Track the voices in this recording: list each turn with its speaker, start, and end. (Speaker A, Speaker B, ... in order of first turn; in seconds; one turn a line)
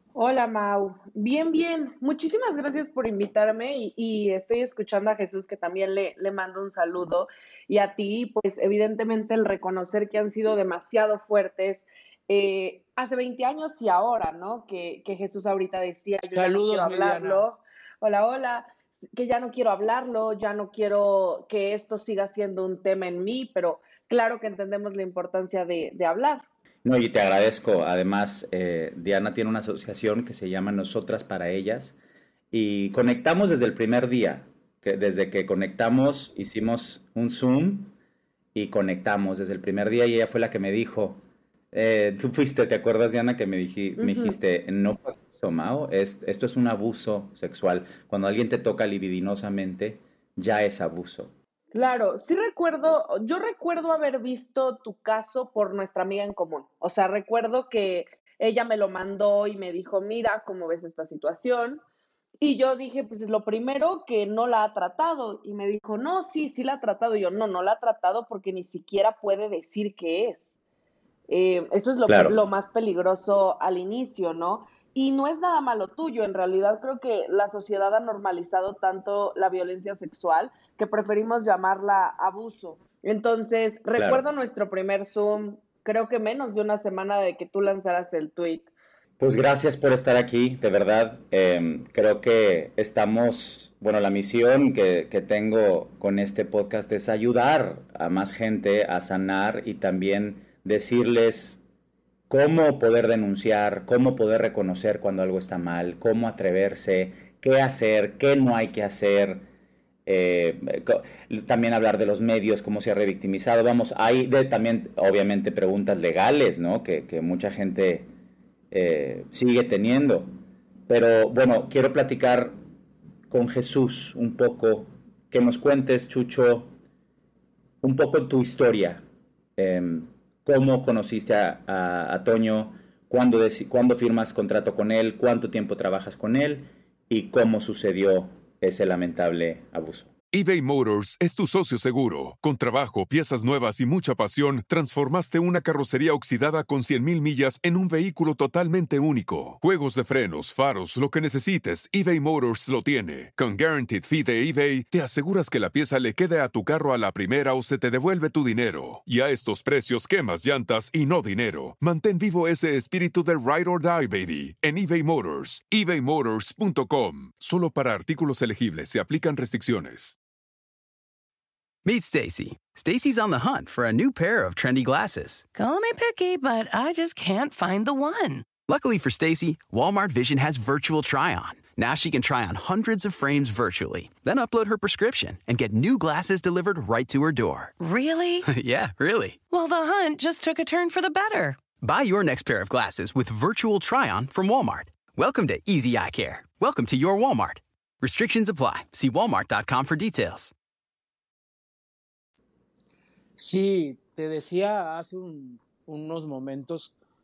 Speaker A: 0.1-26.4
Speaker B: 16.4-17.4
Speaker C: 26.8-31.9
Speaker C: 32.5-37.9
Speaker C: 38.5-51.3
Speaker A: 44.0-44.4
Speaker A: 51.7-61.8
Speaker A: 62.4-70.4
Speaker A: 71.3-88.7
Speaker C: 72.1-72.3
Speaker C: 84.0-84.2
Speaker C: 89.2-101.6
Speaker C: 102.3-109.5
Speaker C: 110.0-118.1
Speaker C: 118.7-120.3
Speaker C: 120.9-122.6
Speaker C: 123.3-126.7
Speaker C: 127.8-129.0
Speaker C: 129.6-140.1
Speaker D: 140.3-170.2
Speaker E: 171.8-175.4
Speaker F: 175.5-178.5
Speaker E: 178.6-187.7
Speaker F: 187.8-188.4
Speaker E: 188.4-189.4
Speaker F: 189.5-191.6
Speaker E: 191.8-200.5
Speaker B: 203.4-206.9